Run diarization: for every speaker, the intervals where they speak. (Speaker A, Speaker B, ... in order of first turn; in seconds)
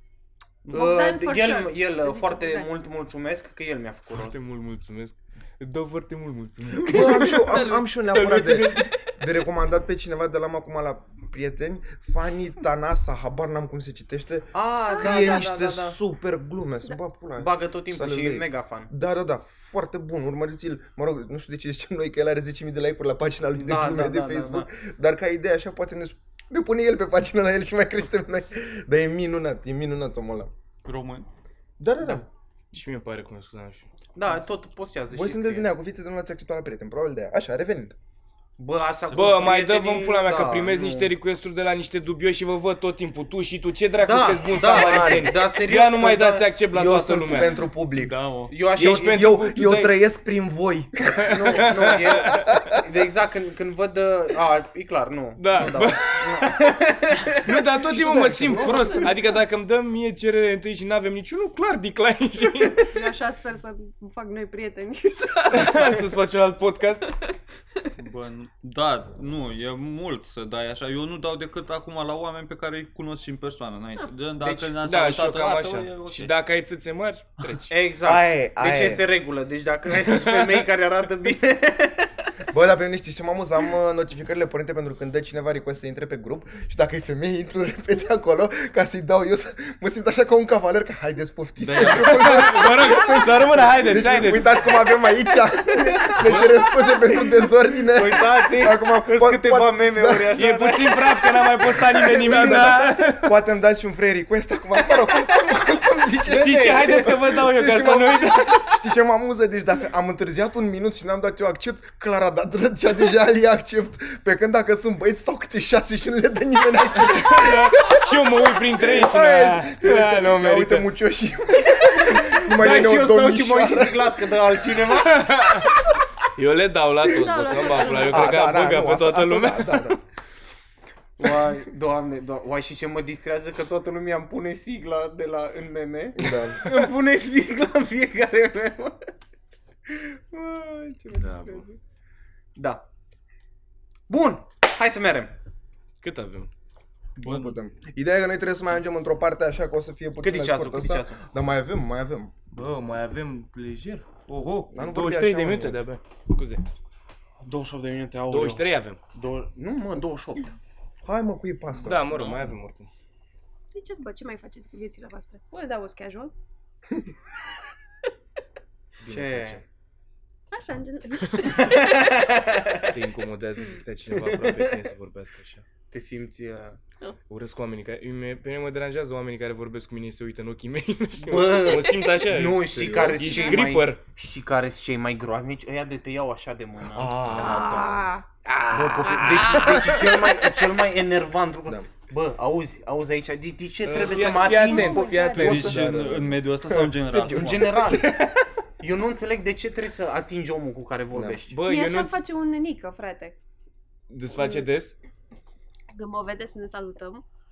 Speaker A: 0.7-4.4, 14.5-16.0, 17.4-18.9, 23.6-24.7, 34.1-35.7, 38.6-41.1, 44.0-46.5, 48.5-49.3, 51.3-59.1, 74.4-74.8, 77.7-82.1, 96.0-96.3, 97.8-101.2, 106.2-107.1, 122.0-125.3, 131.2-139.1, 139.9-141.8, 142.6-142.8, 144.1-145.3, 150.2-151.2, 157.4-160.5, 169.1-169.6, 171.6-172.8, 174.2-174.7, 175.9-176.8, 181.2-187.2, 188.7-195.2, 197.2-201.6
Speaker B: 0.7-2.7, 14.8-15.4, 58.8-59.1, 62.9-66.1, 127.1-128.3, 163.7-166.3, 170.5-172.1, 187.3-188.2, 189.0-189.7, 194.0-195.7, 201.6-203.3, 204.4-204.6, 205.9-207.2
Speaker C: 4.1-9.0, 32.7-33.9, 39.1-47.6, 48.7-49.9, 51.2-52.5, 55.4-56.6, 57.3-62.9, 65.5-67.1, 74.8-77.7, 91.8-94.7, 100.3-103.3, 106.3-108.7, 117.0-120.9, 124.9-125.7, 126.3-129.9, 136.2-136.8, 141.1-141.6, 146.0-146.5, 152.5-156.6, 158.3-159.0, 161.8-162.9, 169.0-169.6, 172.9-175.6, 177.3-184.0, 187.3-187.7, 188.4-190.4, 193.8-195.8, 201.5-202.2, 204.1-204.9
Speaker D: 6.8-30.5, 31.8-32.2, 35.1-37.9, 44.6-45.3, 46.7-48.2, 48.7-52.8, 58.2-58.5, 78.0-79.0, 82.5-100.3, 101.7-124.2, 128.1-130.0, 136.2-136.7, 147.2-152.3, 154.7-155.8, 161.0-162.0, 182.7-183.4, 186.9-188.1, 195.3-198.3, 201.1-201.4
Speaker E: 30.8-31.3, 39.1-39.4, 48.0-48.5, 68.0-76.3, 91.6-92.6, 96.2-96.6, 147.2-147.5, 162.1-162.4, 195.4-197.9